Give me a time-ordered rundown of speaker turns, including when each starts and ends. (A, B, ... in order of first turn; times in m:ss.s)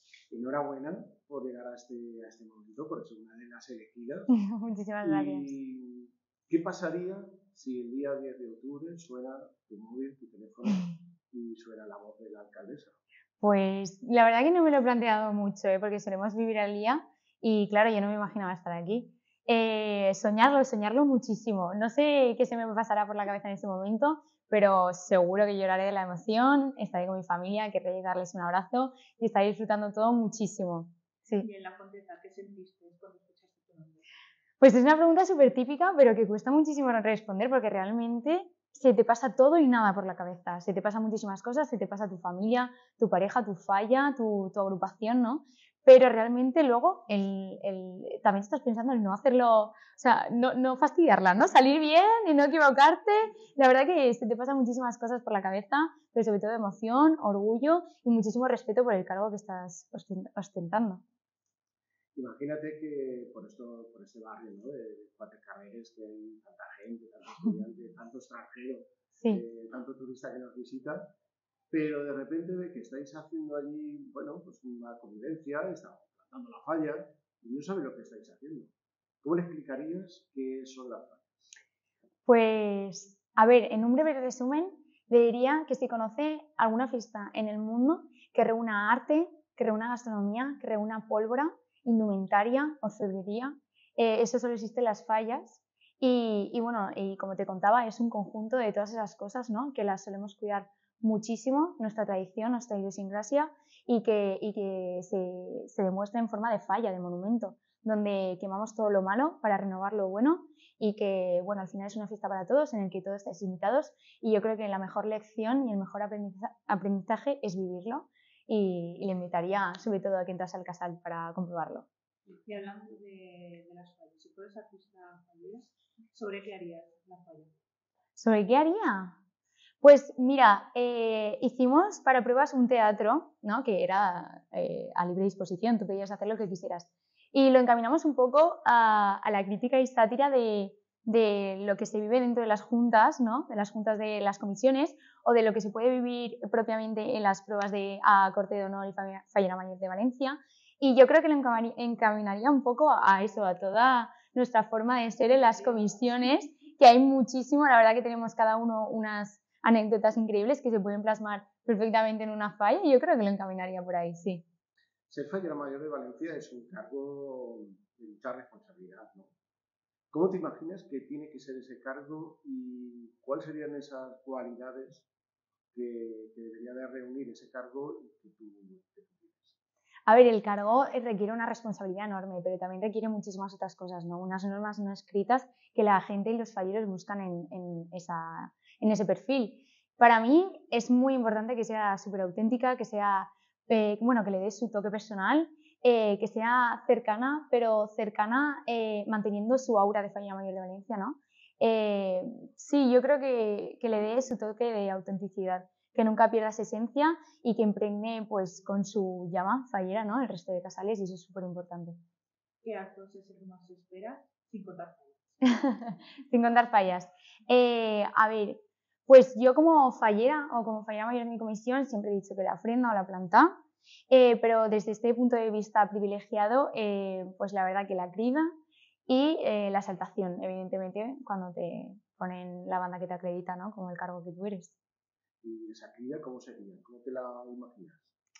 0:00.3-0:04.3 A
0:04.3-0:05.6 B
0:05.0-0:13.0 A
0:13.4-0:31.5 B
0:31.4-0:34.1 C
0:34.6-1:01.0 B
1:02.1-1:11.1 A
1:11.7-1:18.7 A
1:19.2-1:21.5 A
1:22.2-2:01.9 B
2:02.4-2:07.5 C
2:08.2-2:09.1 B
2:09.8-2:44.4 B
2:45.1-2:49.3 A
2:50.1-2:55.1 A
2:55.7-2:59.6 A
3:00.1-3:32.0 B
3:32.6-3:35.4 C
3:35.4-3:43.6 B
3:44.1-3:48.5 B
3:49.1-3:54.7 B
3:55.4-3:58.1 A